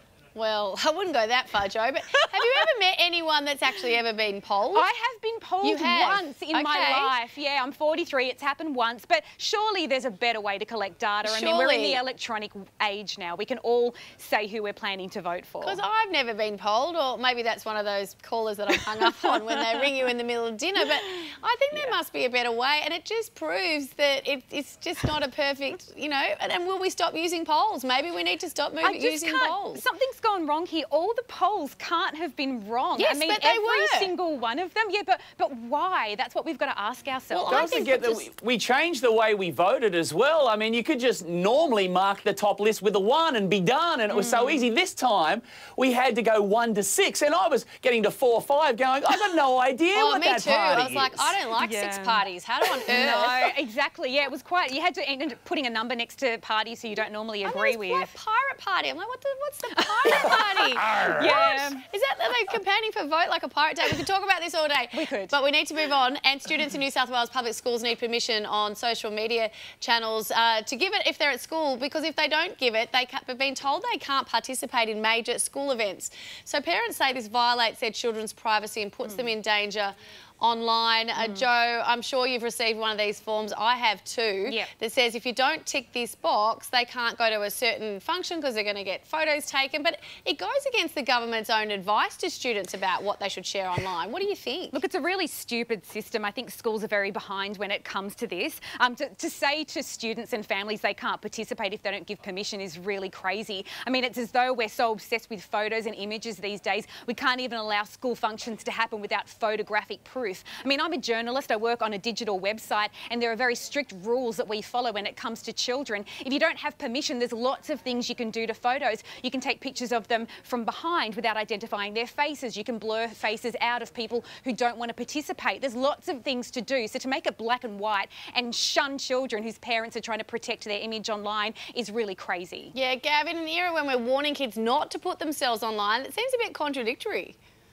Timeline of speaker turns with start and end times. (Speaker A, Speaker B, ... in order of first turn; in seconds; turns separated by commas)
Speaker A: 0.3-4.9, Speaker B: 4.7-15.8, Speaker A: 5.6-7.1, Speaker A: 11.2-12.0, Speaker A: 15.6-29.8, Speaker B: 28.8-37.9, Speaker A: 33.0-34.1, Speaker A: 37.3-38.2, Speaker C: 37.4-51.4, Speaker B: 44.1-44.6, Speaker A: 49.9-53.5, Speaker B: 51.6-52.2, Speaker B: 52.9-58.1, Speaker A: 57.4-94.8, Speaker B: 59.7-61.8, Speaker C: 60.8-61.3, Speaker B: 64.9-65.3, Speaker B: 94.7-132.7, Speaker A: 132.7-137.4